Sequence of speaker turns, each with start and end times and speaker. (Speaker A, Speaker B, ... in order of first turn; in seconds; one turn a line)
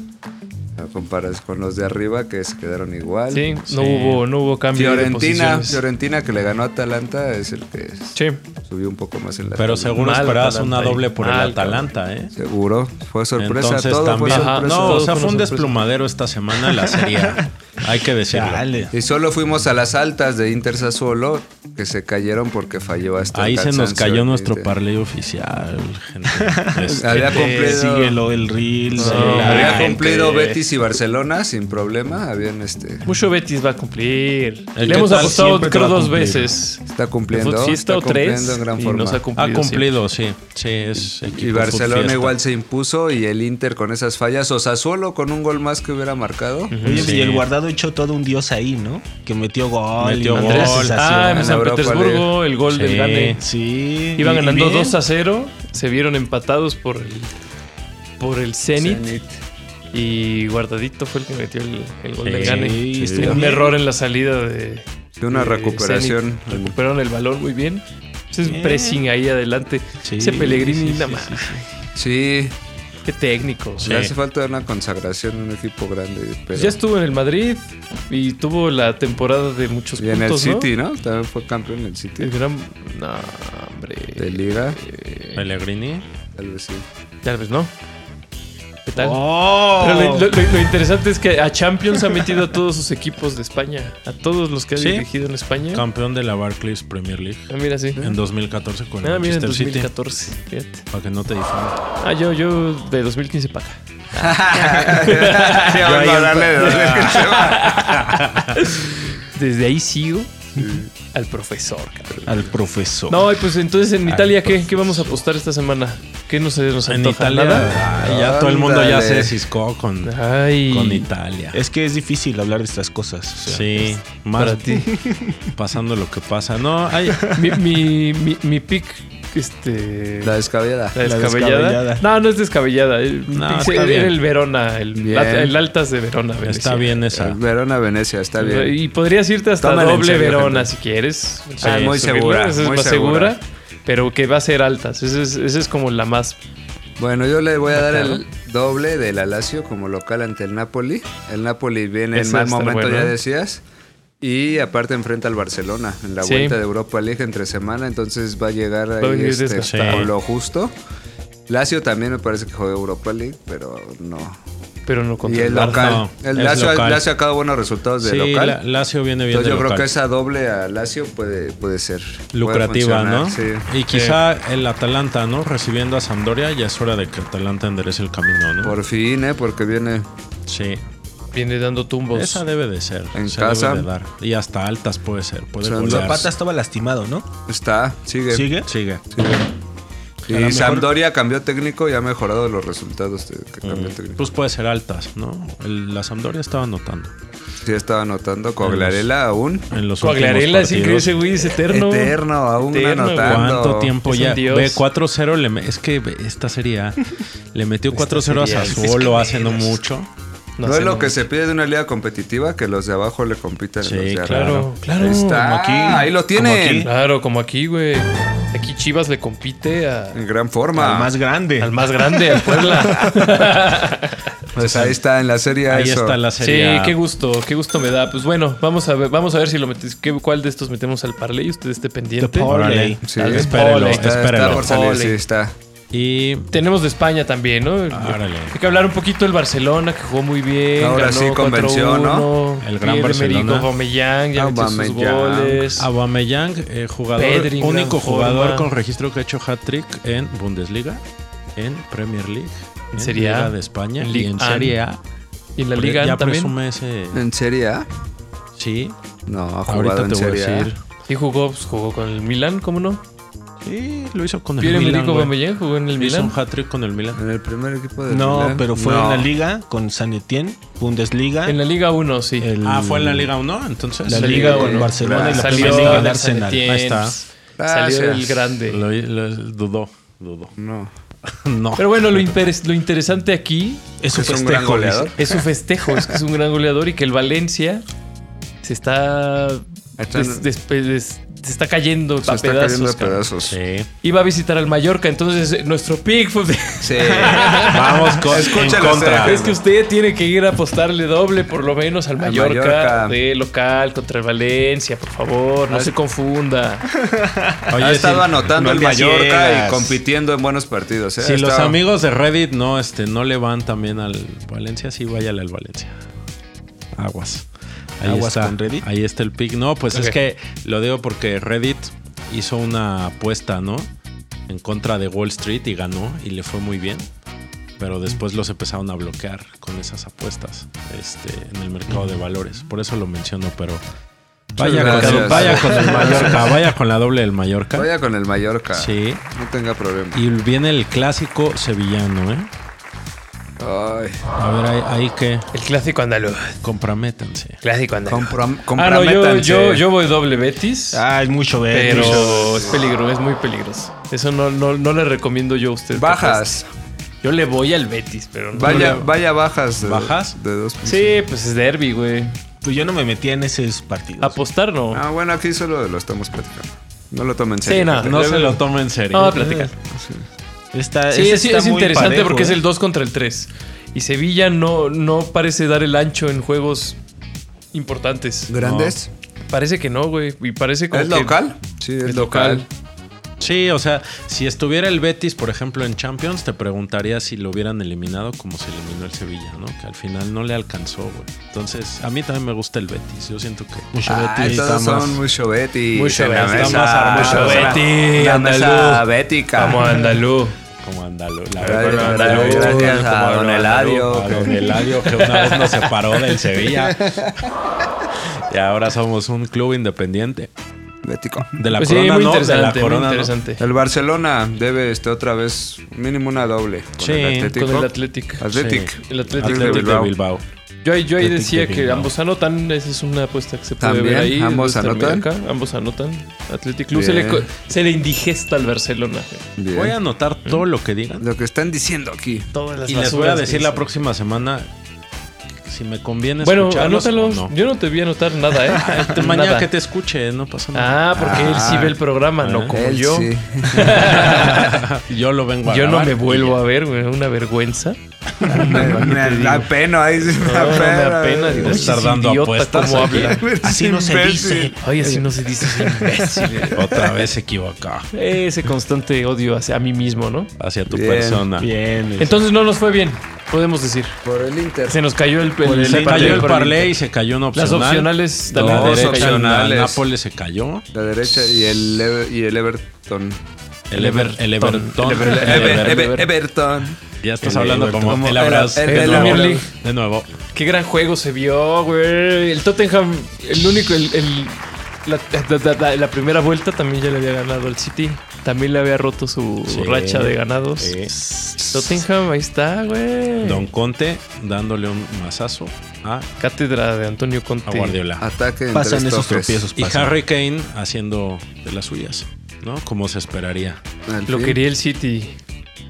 Speaker A: 0.8-3.5
Speaker B: 3.3-5.8
Speaker C: 3.7-4.2
Speaker A: 4.7-10.0
Speaker B: 8.2-8.4
Speaker C: 9.6-12.3
Speaker B: 9.9-11.9
Speaker A: 12.3-15.1
Speaker C: 13.4-18.7
Speaker B: 14.3-15.8
Speaker D: 16.6-17.4
Speaker D: 18.3-18.9
Speaker A: 18.9-24.7
Speaker C: 23.3-27.5
Speaker D: 26.3-30.0
Speaker A: 27.0-28.2
Speaker B: 27.1-27.8
Speaker C: 29.0-29.9
Speaker B: 29.0-30.6
Speaker A: 29.1-33.1
Speaker B: 33.1-40.0
Speaker C: 34.8-36.5
Speaker D: 34.9-36.3
Speaker A: 36.9-39.2
Speaker C: 39.4-42.4
Speaker A: 41.4-46.8
Speaker B: 46.7-47.1
Speaker D: 46.8-51.6
Speaker C: 46.9-47.5
Speaker C: 50.0-51.0
Speaker B: 50.3-53.4
Speaker A: 51.3-52.3
Speaker C: 52.7-53.5
Speaker D: 53.4-55.0
Speaker B: 54.2-57.3
Speaker B: 58.2-59.1
Speaker A: 58.8-59.4
Speaker B: 59.9-71.7
Speaker C: 62.2-63.4
Speaker D: 62.4-63.8
Speaker A: 65.2-66.8
Speaker D: 68.4-69.0
Speaker D: 70.0-71.6
Speaker A: 72.0-72.5
Speaker B: 73.1-73.9
Speaker C: 73.8-74.1
Speaker A: 73.8-76.8
Speaker B: 76.5-80.7
Speaker A: 80.0-82.3
Speaker B: 82.2-85.4
Speaker A: 84.2-84.8
Speaker C: 85.4-86.0
Speaker A: 86.4-86.8
Speaker B: 87.2-87.7
Speaker B: 88.9-95.8
Speaker D: 89.0-90.3
Speaker C: 94.8-95.1
Speaker C: 95.7-99.9
Speaker B: 97.5-98.0
Speaker B: 99.0-100.8
Speaker C: 100.9-101.8
Speaker B: 102.0-106.0
Speaker A: 104.2-107.9
Speaker C: 105.7-107.3
Speaker B: 106.5-110.4
Speaker C: 108.1-108.5
Speaker A: 110.6-110.9
Speaker B: 111.0-112.3
Speaker D: 112.3-113.3
Speaker B: 113.1-117.7
Speaker C: 114.1-115.1
Speaker C: 116.9-121.6
Speaker A: 118.0-119.4
Speaker B: 120.0-121.1
Speaker D: 121.5-124.0
Speaker C: 123.5-124.9
Speaker B: 124.4-124.9
Speaker D: 124.9-125.5
Speaker C: 125.5-127.4
Speaker B: 127.3-130.4
Speaker A: 130.2-131.0
Speaker B: 130.9-137.1
Speaker D: 131.0-132.1
Speaker C: 133.3-134.2
Speaker A: 135.0-135.6
Speaker C: 136.4-137.4
Speaker A: 137.2-138.8
Speaker B: 138.4-146.4
Speaker A: 139.6-140.7
Speaker A: 141.6-143.4
Speaker A: 147.0-153.6
Speaker B: 147.7-148.2
Speaker B: 152.1-153.2
Speaker A: 154.2-160.7
Speaker B: 156.2-156.6
Speaker B: 159.0-160.1
Speaker C: 159.7-160.1
Speaker A: 161.5-164.4
Speaker B: 164.9-166.0
Speaker A: 165.2-168.6
Speaker C: 165.7-167.1
Speaker C: 168.0-169.9
Speaker A: 169.3-173.7
Speaker C: 172.3-178.8
Speaker B: 173.9-174.2
Speaker A: 178.6-180.1
Speaker C: 180.5-180.8
Speaker B: 181.3-182.4
Speaker C: 182.1-186.3
Speaker A: 183.2-183.9
Speaker A: 185.6-186.2
Speaker D: 185.8-187.3
Speaker A: 187.5-188.6
Speaker D: 188.3-188.7
Speaker C: 188.7-189.0
Speaker A: 189.1-189.5
Speaker A: 190.3-194.2
Speaker D: 190.3-190.9
Speaker C: 193.6-197.1
Speaker A: 197.7-199.7
Speaker C: 198.6-199.1
Speaker C: 199.7-201.1
Speaker B: 200.0-203.5
Speaker A: 201.6-203.9
Speaker C: 203.2-210.1
Speaker B: 204.1-204.8
Speaker B: 207.9-209.7
Speaker B: 210.6-211.2
Speaker A: 210.6-216.9
Speaker C: 213.8-214.7
Speaker B: 214.2-215.5
Speaker D: 215.3-216.9
Speaker B: 216.8-220.2
Speaker A: 220.1-221.1
Speaker D: 220.8-223.2
Speaker B: 221.6-224.2
Speaker A: 224.6-226.2
Speaker C: 224.6-225.0
Speaker C: 225.7-227.0
Speaker B: 226.4-232.5
Speaker D: 232.2-233.0
Speaker C: 232.4-234.7
Speaker A: 233.1-235.6
Speaker B: 233.2-235.2
Speaker C: 235.9-236.5
Speaker B: 236.5-245.9
Speaker C: 237.9-238.6
Speaker A: 240.8-242.3
Speaker C: 242.6-243.7
Speaker A: 244.3-245.7
Speaker C: 245.8-251.0
Speaker B: 247.2-248.7
Speaker C: 251.6-255.0
Speaker B: 252.9-254.8
Speaker B: 255.6-256.5
Speaker C: 255.8-257.2
Speaker A: 257.1-257.9
Speaker C: 258.6-258.9
Speaker A: 259.3-260.7
Speaker C: 259.7-260.8
Speaker B: 261.1-263.0
Speaker C: 263.6-265.4
Speaker B: 264.6-266.4
Speaker C: 266.0-267.2
Speaker A: 267.2-269.3
Speaker D: 268.1-271.6
Speaker B: 271.5-272.5
Speaker D: 272.4-273.3
Speaker C: 272.6-276.1
Speaker D: 274.1-276.6
Speaker B: 274.1-278.8
Speaker A: 274.9-275.5
Speaker C: 276.6-277.2
Speaker A: 277.6-278.4
Speaker C: 278.7-280.5
Speaker A: 280.6-280.9
Speaker C: 281.3-282.3
Speaker B: 281.8-283.9
Speaker D: 284.0-285.3
Speaker A: 284.1-285.2
Speaker B: 285.2-287.8
Speaker B: 288.6-293.3
Speaker A: 290.0-290.4
Speaker A: 292.2-293.6
Speaker C: 293.4-293.9
Speaker B: 294.0-306.9
Speaker A: 296.8-297.7
Speaker D: 297.2-297.5
Speaker C: 297.6-299.5
Speaker A: 298.3-299.6
Speaker A: 302.2-303.2
Speaker D: 307.0-307.7
Speaker C: 307.7-308.5
Speaker A: 307.8-311.8
Speaker D: 308.6-310.0
Speaker C: 311.2-315.9
Speaker C: 317.0-317.5
Speaker C: 318.0-323.9
Speaker D: 318.0-318.9
Speaker C: 324.5-327.1
Speaker C: 327.8-333.8
Speaker C: 334.6-337.9
Speaker A: 334.6-336.5
Speaker B: 334.8-336.5
Speaker A: 337.7-340.2
Speaker C: 338.8-339.2
Speaker C: 340.1-342.5
Speaker A: 343.6-344.2
Speaker C: 344.4-345.5
Speaker B: 345.5-346.6
Speaker C: 346.6-347.6
Speaker B: 347.6-351.0
Speaker A: 348.1-349.9
Speaker D: 350.9-352.7
Speaker B: 351.7-356.4
Speaker A: 351.9-352.9
Speaker A: 355.9-356.7
Speaker B: 357.2-359.1
Speaker A: 358.6-361.2
Speaker C: 358.6-359.1
Speaker C: 359.8-360.4
Speaker B: 360.8-362.4
Speaker D: 362.6-364.4
Speaker B: 364.2-365.0
Speaker A: 364.9-368.2
Speaker B: 367.6-369.7
Speaker C: 368.1-369.6
Speaker D: 369.4-369.7
Speaker A: 369.9-370.2
Speaker D: 370.7-372.6
Speaker B: 371.1-377.0
Speaker B: 377.7-378.5
Speaker A: 378.5-379.1
Speaker C: 378.6-379.0
Speaker B: 379.5-381.4
Speaker A: 380.9-382.6
Speaker B: 382.0-382.7
Speaker C: 383.4-395.2
Speaker D: 393.9-395.1
Speaker A: 394.1-400.2
Speaker B: 395.9-400.6
Speaker C: 396.4-397.8
Speaker C: 400.8-407.3
Speaker A: 401.6-404.6
Speaker B: 401.9-403.1
Speaker B: 405.0-405.9
Speaker A: 406.9-407.3
Speaker C: 408.5-410.5
Speaker A: 411.0-411.6
Speaker C: 411.5-413.3
Speaker B: 411.8-413.6
Speaker A: 413.6-420.1
Speaker C: 417.0-417.5
Speaker B: 417.5-418.5
Speaker C: 418.5-420.4
Speaker B: 419.0-420.0
Speaker B: 420.8-429.5
Speaker C: 421.3-422.1
Speaker A: 423.8-425.3
Speaker A: 426.9-427.5
Speaker A: 429.6-429.9
Speaker C: 429.7-431.3
Speaker A: 431.2-432.5
Speaker B: 432.5-433.9
Speaker C: 432.9-434.7
Speaker C: 435.6-437.5
Speaker B: 436.4-439.7
Speaker C: 438.8-441.9
Speaker B: 440.7-444.8
Speaker A: 441.2-442.0
Speaker C: 442.4-442.8
Speaker A: 442.7-444.6
Speaker C: 443.9-446.6
Speaker B: 445.7-449.7
Speaker A: 448.4-452.0
Speaker D: 449.0-449.5
Speaker B: 450.3-453.4
Speaker C: 451.6-453.4
Speaker D: 453.2-456.5
Speaker A: 453.3-454.8
Speaker B: 454.8-456.8
Speaker A: 456.5-457.0
Speaker C: 456.8-458.1
Speaker B: 458.1-460.5
Speaker C: 460.6-461.7
Speaker A: 460.9-461.5
Speaker D: 461.6-462.4
Speaker B: 462.2-464.2
Speaker A: 464.2-465.0
Speaker B: 464.9-466.9
Speaker D: 465.6-466.5
Speaker C: 465.8-470.9
Speaker B: 467.5-469.4
Speaker A: 468.5-470.0
Speaker A: 470.9-473.4
Speaker C: 473.9-476.1
Speaker B: 473.9-476.3
Speaker A: 475.1-477.0
Speaker C: 477.2-480.3
Speaker D: 477.4-478.3
Speaker A: 478.0-479.6
Speaker B: 478.9-479.7
Speaker B: 480.5-491.0
Speaker C: 489.7-491.2
Speaker A: 491.6-491.9
Speaker B: 491.7-493.7
Speaker C: 493.4-496.3
Speaker B: 496.4-498.0
Speaker C: 497.7-498.2
Speaker A: 498.2-499.6
Speaker D: 498.7-500.1
Speaker C: 499.8-503.8
Speaker A: 504.1-504.6
Speaker B: 504.3-505.4